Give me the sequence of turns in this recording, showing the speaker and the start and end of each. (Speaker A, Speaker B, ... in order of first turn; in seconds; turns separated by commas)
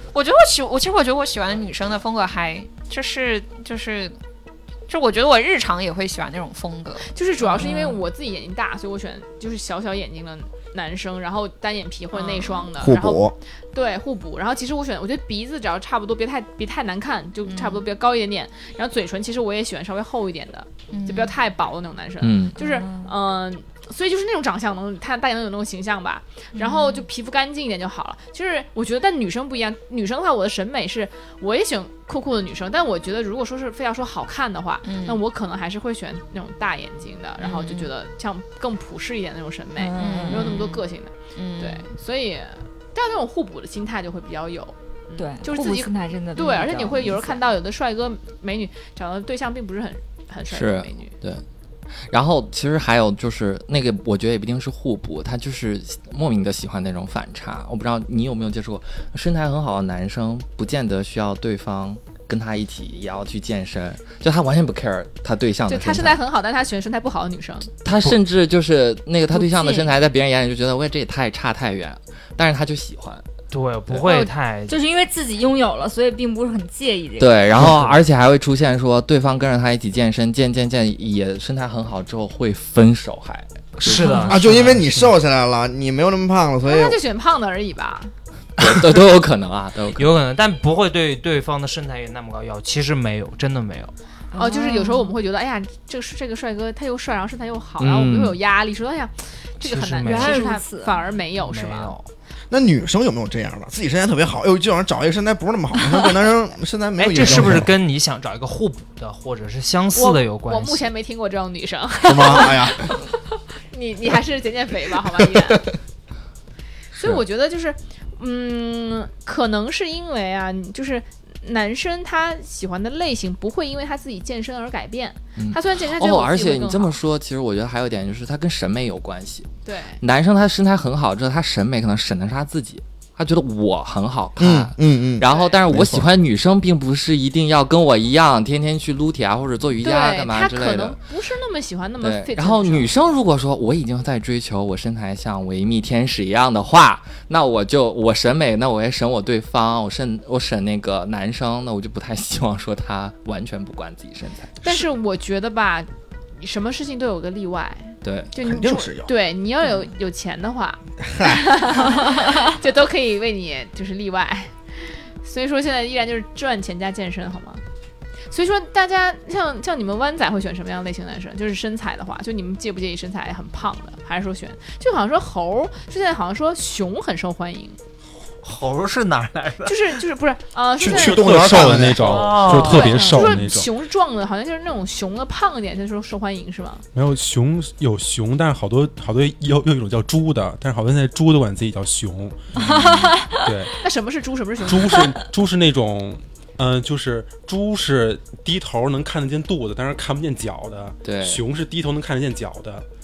Speaker A: 0.1-4.2, Speaker A: 4.9-7.1, Speaker B: 7.0-51.1, Speaker C: 7.6-8.0, Speaker A: 12.1-12.7, Speaker D: 12.8-13.4, Speaker A: 17.5-17.9, Speaker A: 20.9-21.4, Speaker E: 22.2-22.6, Speaker C: 22.6-23.1, Speaker A: 26.6-27.1, Speaker A: 34.9-35.2, Speaker A: 37.4-37.9, Speaker C: 39.8-40.5, Speaker A: 40.0-41.9, Speaker C: 45.2-47.4, Speaker E: 50.5-51.4, Speaker E: 52.0-66.2, Speaker B: 65.7-67.7, Speaker E: 67.8-73.2, Speaker F: 73.5-74.8, Speaker C: 74.7-77.4, Speaker E: 77.2-84.3, Speaker F: 83.8-85.1, Speaker C: 84.0-84.3, Speaker D: 84.3-87.0, Speaker B: 86.6-88.1, Speaker E: 88.6-90.2, Speaker F: 90.0-93.9, Speaker C: 94.3-95.1, Speaker B: 94.3-102.0, Speaker E: 97.8-98.4, Speaker F: 99.6-100.5, Speaker C: 100.0-101.0, Speaker F: 101.4-102.0, Speaker D: 102.5-107.7, Speaker F: 107.0-110.9, Speaker B: 110.0-113.1, Speaker D: 112.0-113.0, Speaker B: 113.7-115.7, Speaker B: 116.9-127.0, Speaker E: 125.4-129.5, Speaker B: 129.7-130.0, Speaker E: 130.0-141.0, Speaker D: 134.4-136.1, Speaker B: 135.2-135.6, Speaker B: 139.8-142.9, Speaker E: 142.0-154.6, Speaker B: 154.6-164.6, Speaker E: 158.0-158.3, Speaker D: 158.4-159.1, Speaker D: 161.0-161.4, Speaker B: 165.2-167.6, Speaker B: 168.3-177.8, Speaker F: 178.4-180.0, Speaker B: 179.7-181.7, Speaker D: 180.8-182.3, Speaker G: 180.8-183.7, Speaker F: 181.7-183.3, Speaker B: 182.2-186.8, Speaker G: 186.9-193.8, Speaker C: 192.6-193.4, Speaker B: 193.8-195.1, Speaker G: 194.6-202.8, Speaker E: 201.0-201.4